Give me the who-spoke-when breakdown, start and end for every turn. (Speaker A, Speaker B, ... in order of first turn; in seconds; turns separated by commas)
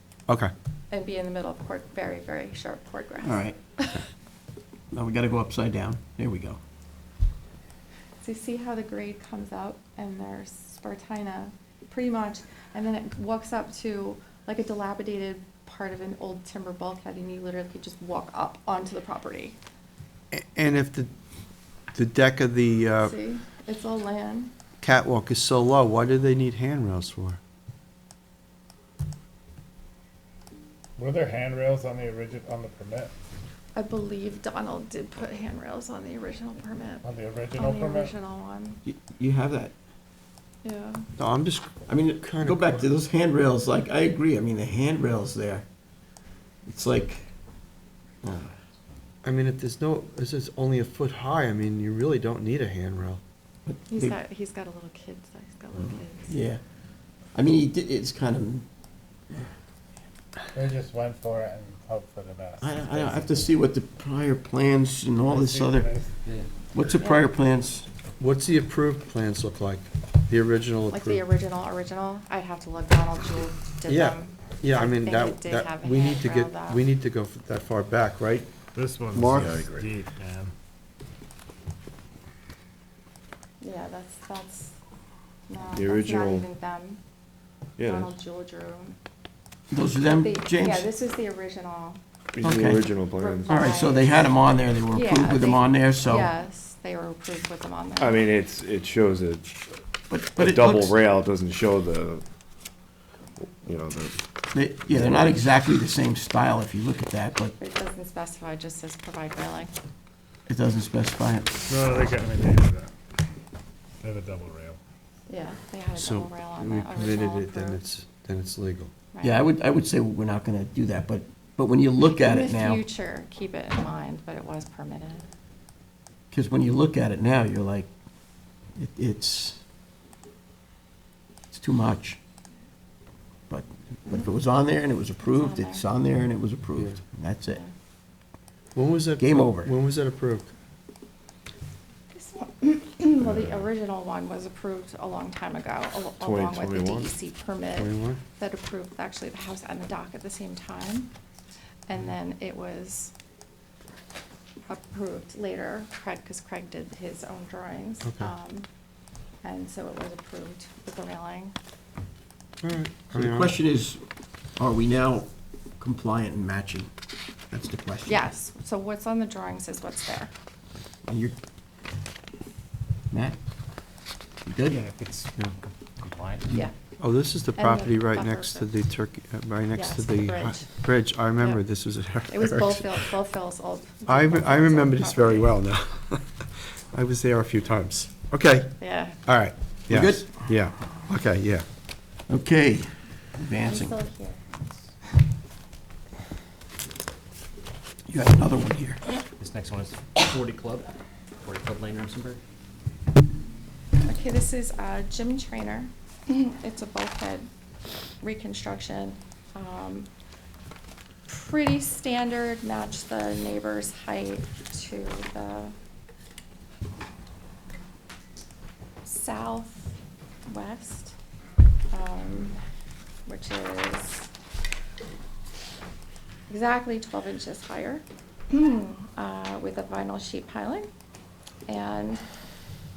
Speaker A: 0.9-4.0, Speaker B: 3.2-3.6, Speaker B: 4.9-6.6, Speaker A: 8.2-19.6, Speaker C: 20.3-21.1, Speaker C: 21.9-23.1, Speaker A: 23.0-24.5, Speaker C: 24.8-27.4, Speaker D: 31.0-33.1, Speaker A: 33.7-38.8, Speaker D: 37.0-38.1, Speaker B: 38.8-39.7, Speaker A: 40.6-41.1, Speaker C: 41.2-42.9, Speaker B: 41.9-45.6, Speaker B: 46.6-47.3, Speaker B: 48.2-48.5, Speaker C: 49.2-53.2, Speaker B: 53.7-54.1, Speaker A: 53.9-56.4, Speaker B: 56.3-56.6, Speaker B: 57.3-58.6, Speaker D: 60.5-63.3, Speaker B: 62.6-65.9, Speaker D: 65.3-66.2, Speaker B: 66.7-67.9, Speaker A: 67.0-67.3, Speaker C: 68.2-71.2, Speaker A: 70.9-76.8, Speaker C: 73.9-78.5, Speaker D: 78.7-80.5, Speaker E: 79.1-79.9, Speaker A: 83.6-84.7, Speaker A: 85.5-87.0, Speaker E: 85.7-86.5, Speaker E: 87.8-88.1, Speaker A: 87.8-89.0, Speaker B: 89.7-90.9, Speaker A: 90.2-92.0, Speaker E: 92.3-93.6, Speaker B: 92.4-92.9, Speaker A: 93.2-94.3, Speaker B: 93.5-96.3, Speaker A: 94.9-98.2, Speaker E: 98.0-99.5, Speaker B: 100.1-101.0, Speaker E: 100.3-102.2, Speaker E: 103.6-104.2, Speaker B: 104.5-107.6, Speaker A: 107.6-109.7, Speaker B: 110.5-111.7, Speaker D: 111.7-112.9, Speaker D: 114.0-114.8, Speaker A: 115.3-117.8, Speaker C: 116.0-118.9, Speaker A: 119.1-119.5, Speaker B: 119.2-122.9, Speaker A: 122.0-125.3, Speaker B: 126.3-127.9, Speaker B: 128.8-129.6, Speaker B: 131.5-132.2, Speaker B: 133.5-137.6, Speaker A: 135.2-135.8, Speaker C: 138.7-140.5, Speaker B: 139.2-139.7, Speaker A: 142.1-151.1, Speaker E: 146.2-147.1, Speaker C: 147.8-148.2, Speaker A: 151.9-153.1, Speaker A: 154.7-158.7, Speaker C: 158.0-158.3, Speaker A: 159.4-161.5, Speaker C: 162.6-163.6, Speaker B: 163.1-164.0, Speaker B: 164.6-166.9, Speaker B: 167.5-168.2, Speaker A: 168.1-170.3, Speaker B: 171.1-171.3, Speaker B: 173.1-173.3, Speaker B: 174.4-174.8, Speaker F: 174.7-176.6, Speaker C: 177.0-183.0, Speaker A: 177.6-178.7, Speaker A: 179.7-180.8, Speaker A: 182.3-185.6, Speaker C: 184.1-191.6, Speaker A: 188.8-189.2, Speaker B: 189.9-190.3, Speaker B: 192.3-194.0, Speaker A: 193.6-194.4, Speaker B: 198.1-199.0, Speaker F: 199.4-202.4, Speaker A: 204.0-207.5, Speaker A: 208.2-210.1, Speaker A: 211.3-215.7, Speaker A: 219.0-219.9, Speaker A: 220.4-221.1, Speaker A: 221.9-222.6, Speaker A: 223.3-224.3, Speaker A: 226.5-230.9, Speaker A: 231.7-232.2